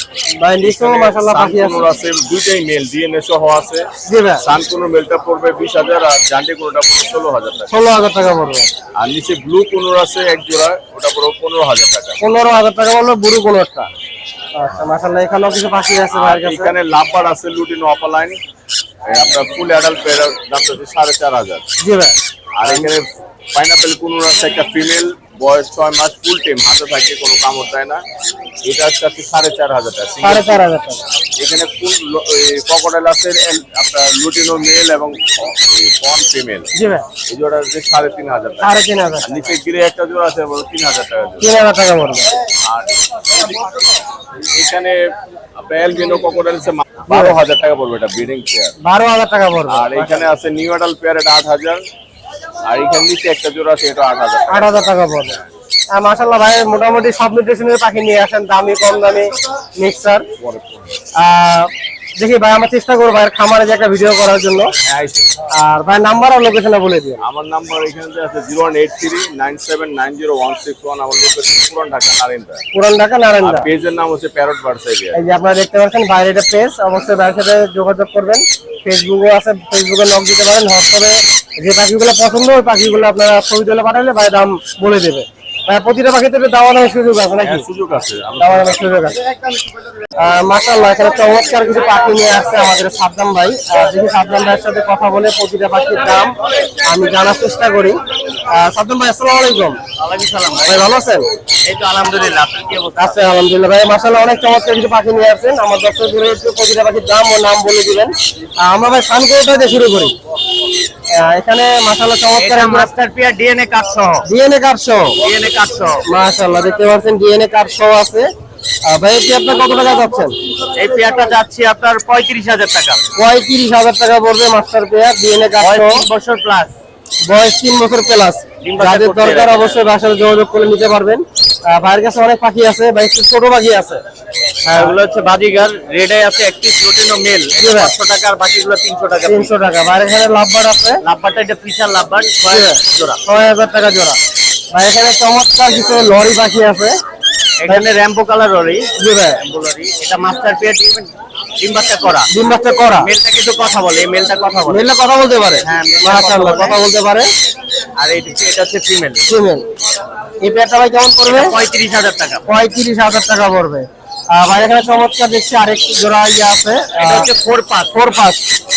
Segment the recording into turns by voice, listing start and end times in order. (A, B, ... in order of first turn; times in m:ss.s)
0:00.4-0:01.9 A
0:00.6-0:03.9 B
0:04.1-0:04.4 A
0:04.4-0:07.7 B
0:07.7-0:08.7 A
0:09.0-0:12.2 B
0:12.2-0:13.9 A
0:14.6-0:16.7 A
0:16.1-0:18.4 B
0:19.1-0:21.6 B
0:21.8-0:22.9 A
0:22.6-0:28.0 B
0:28.6-0:30.7 B
0:30.2-0:31.0 A
0:31.4-0:36.7 B
0:36.8-0:37.1 A
0:37.3-0:41.5 B
0:38.6-0:39.3 A
0:41.4-0:42.3 A
0:42.7-0:43.9 B
0:44.5-0:45.0 B
0:45.6-0:48.7 B
0:47.1-0:47.4 A
0:48.8-0:50.3 A
0:49.7-0:51.8 B
0:52.6-0:54.8 B
0:54.5-0:55.4 A
0:55.9-1:00.3 A
1:00.4-1:00.9 B
1:01.2-1:04.7 A
1:04.8-1:05.3 B
1:05.5-1:07.2 A
1:07.2-1:12.6 B
1:12.7-1:13.7 A
1:13.4-1:15.2 B
1:15.1-1:27.6 A
1:27.4-1:28.9 B
1:28.4-1:29.2 A
1:30.2-1:39.8 A
1:40.0-1:40.9 C
1:40.6-1:41.3 A
1:41.6-1:43.2 C
1:43.0-1:50.1 A
1:51.1-1:52.9 A
1:52.4-1:54.2 C
1:54.2-1:55.2 A
1:55.2-1:56.1 C
1:56.0-1:58.3 A
1:58.8-2:00.4 A
2:00.7-2:03.0 C
2:03.1-2:06.1 A
2:05.6-2:06.8 C
2:07.2-2:14.0 A
2:08.6-2:09.8 C
2:14.6-2:19.5 C
2:14.7-2:15.0 A
2:17.6-2:18.0 A
2:19.2-2:21.0 A
2:21.0-2:23.2 C
2:22.5-2:24.2 A
2:24.7-2:27.0 A
2:27.6-2:32.3 C
2:29.0-2:29.4 A
2:32.3-2:33.1 A
2:32.9-2:34.9 C
2:34.6-2:37.3 A
2:35.6-2:36.8 C
2:38.0-2:39.2 C
2:39.2-2:39.6 A
2:40.4-2:41.6 A
2:41.3-2:42.4 C
2:42.4-2:47.3 A
2:46.9-2:48.0 C
2:47.9-2:48.4 A